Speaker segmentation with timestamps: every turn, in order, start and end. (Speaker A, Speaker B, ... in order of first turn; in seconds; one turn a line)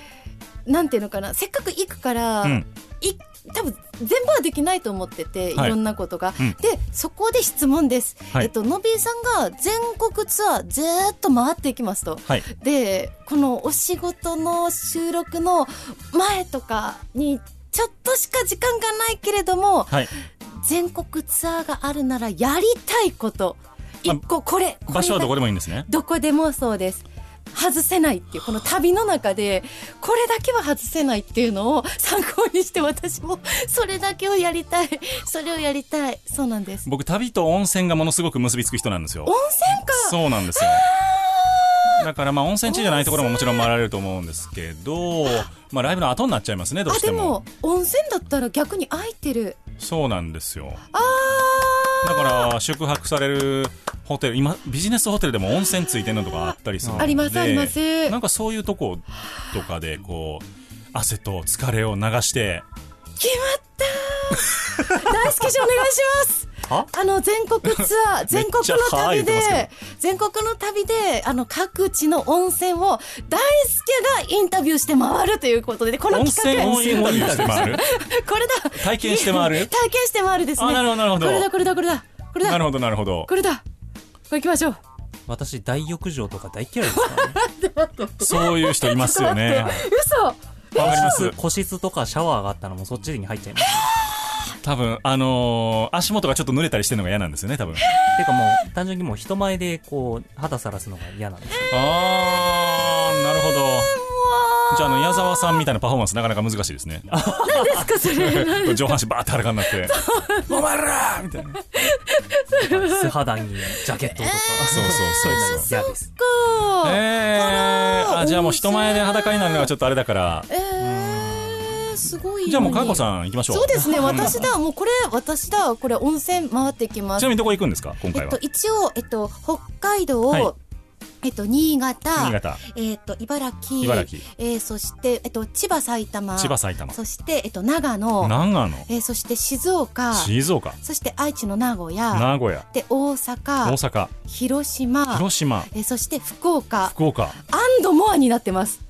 Speaker A: 0.7-36.9
Speaker B: 24.9-25.9
Speaker B: 36.8-39.3
Speaker A: 39.2-42.1
Speaker B: 39.9-40.9
Speaker B: 41.9-47.4
Speaker A: 42.6-43.7
Speaker A: 46.9-49.6
Speaker B: 49.8-50.8
Speaker A: 50.9-52.5
Speaker B: 52.0-62.6
Speaker C: 56.8-57.1
Speaker A: 57.0-58.2
Speaker A: 63.2-82.7
Speaker B: 67.8-69.7
Speaker B: 76.1-77.9
Speaker C: 76.5-77.8
Speaker B: 78.7-79.7
Speaker B: 80.6-81.5
Speaker B: 82.4-83.3
Speaker A: 83.2-83.6
Speaker A: 84.3-84.8
Speaker C: 85.3-87.4
Speaker A: 87.0-91.3
Speaker B: 88.2-89.8
Speaker C: 89.5-89.8
Speaker B: 90.8-91.4
Speaker C: 90.8-93.9
Speaker B: 94.6-97.8
Speaker C: 98.1-101.7
Speaker B: 101.7-103.9
Speaker A: 103.5-105.6
Speaker B: 104.7-107.3
Speaker C: 107.1-107.8
Speaker A: 107.4-109.0
Speaker B: 108.0-111.6
Speaker A: 109.7-110.6
Speaker A: 111.7-113.1
Speaker C: 112.5-116.0
Speaker A: 114.1-114.7
Speaker B: 114.6-115.7
Speaker A: 115.7-119.7
Speaker B: 116.8-120.5
Speaker A: 120.5-127.4
Speaker C: 120.8-122.0
Speaker B: 122.4-124.5
Speaker C: 123.8-124.4
Speaker B: 127.2-128.4
Speaker A: 128.1-130.6
Speaker A: 131.2-148.8
Speaker B: 132.2-132.6
Speaker B: 133.8-134.2
Speaker B: 136.3-137.0
Speaker B: 138.2-138.9
Speaker B: 140.1-140.8
Speaker B: 142.1-142.7
Speaker B: 143.6-144.1
Speaker B: 145.1-145.7
Speaker B: 146.8-147.4